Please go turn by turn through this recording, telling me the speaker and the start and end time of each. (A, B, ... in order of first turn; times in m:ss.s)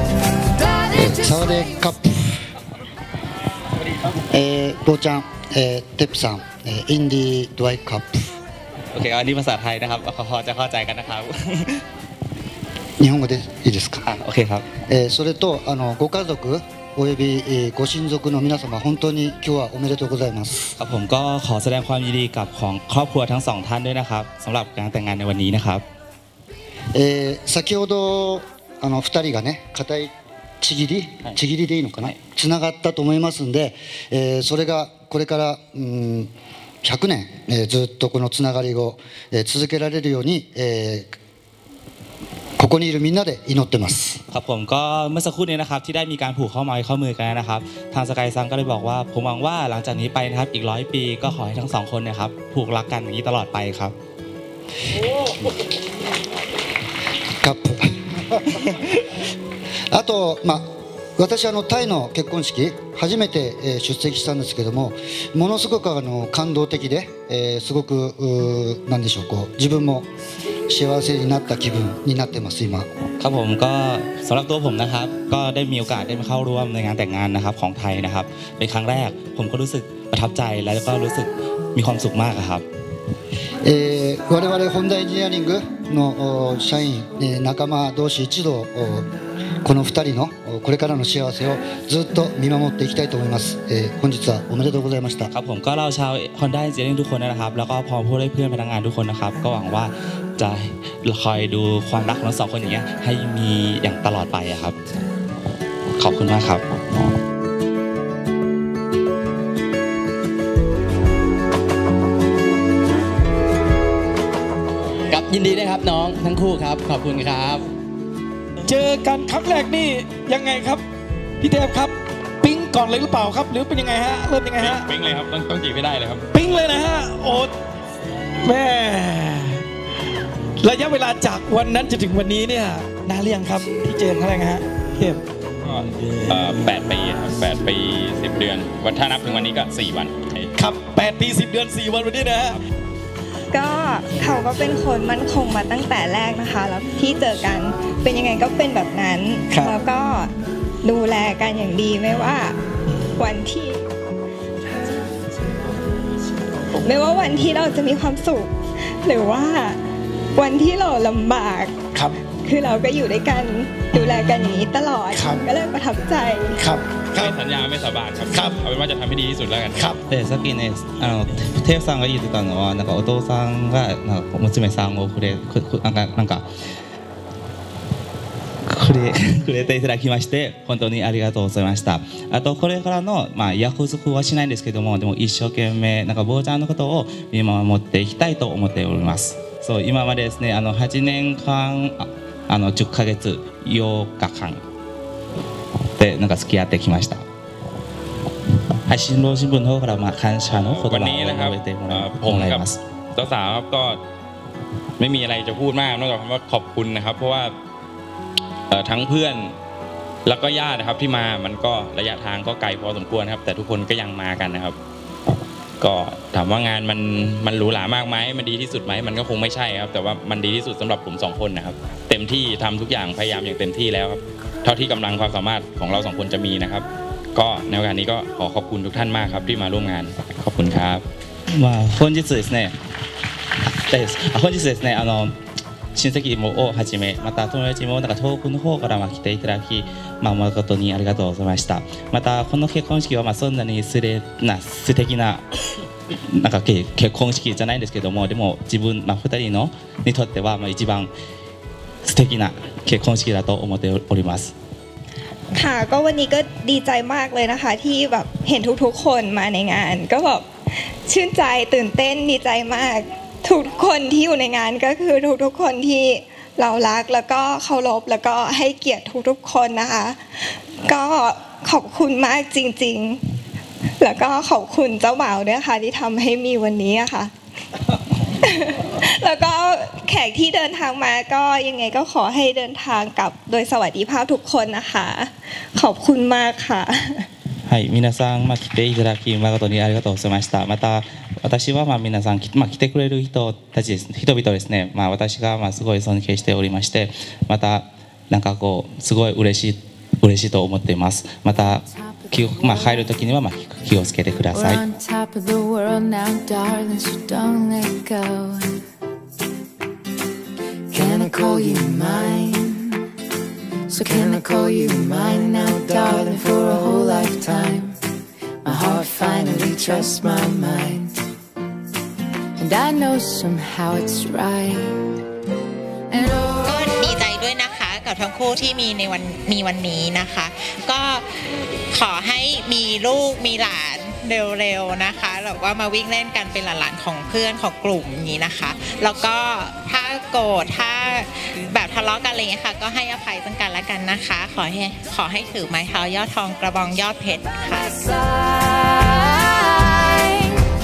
0:00.5-0:01.9 A
0:01.0-0:02.4 B
0:04.3-0:08.3 B
0:08.9-0:11.8 C
0:13.0-0:14.0 B
0:14.0-0:14.6 C
0:14.9-0:20.7 B
0:20.8-0:25.8 C
0:26.9-0:36.3 B
0:36.8-0:41.1 B
0:42.6-0:44.2 B
0:44.3-0:53.9 C
0:55.0-0:55.5 B
0:57.4-0:59.0 B
0:59.9-1:10.1 B
1:10.7-1:12.9 B
1:13.2-1:22.6 C
1:23.6-1:29.1 B
1:29.6-1:35.3 B
1:35.3-1:44.8 C
1:46.0-1:47.1 C
1:55.1-1:57.6 D
1:58.6-2:00.8 E
2:01.4-2:04.9 E
2:04.6-2:06.2 F
2:06.3-2:07.5 E
2:08.4-2:09.6 E
2:10.6-2:15.2 E
2:15.6-2:20.5 F
2:20.6-2:22.6 E
2:23.5-2:30.3 G
2:29.5-2:29.8 E
2:30.8-2:32.6 G
2:33.2-2:33.8 G
2:36.8-2:39.8 G
2:40.3-2:41.8 G
2:42.4-2:46.6 G
2:43.9-2:44.3 E
2:45.1-2:45.5 E
2:46.6-2:47.3 E
2:47.2-2:49.8 F
2:48.3-2:48.6 E
2:49.7-2:50.0 E
2:50.1-2:56.4 C
2:58.7-3:14.6 C
3:16.0-3:17.2 C
3:18.9-3:22.8 C
3:20.5-3:22.6 F
3:23.1-3:24.0 F
3:25.0-3:27.5 F
3:28.7-3:29.5 F
3:30.2-3:34.8 F
3:35.8-3:51.0 F
3:51.5-3:52.7 C
3:53.6-3:55.3 C
3:55.9-4:05.4 C
4:06.3-4:11.1 C
4:12.0-4:14.5 C
4:15.5-4:33.2 G
4:34.0-4:37.3 G
4:38.4-4:47.3 G
4:47.7-5:04.8 C
5:01.5-5:03.0 A
5:04.5-5:08.8 A
5:10.9-5:13.0 A
5:13.9-5:18.0 A
5:18.6-5:21.2 A
5:22.6-5:24.9 A
5:26.1-5:26.7 A
5:26.6-5:47.9 H
5:47.7-5:50.5 A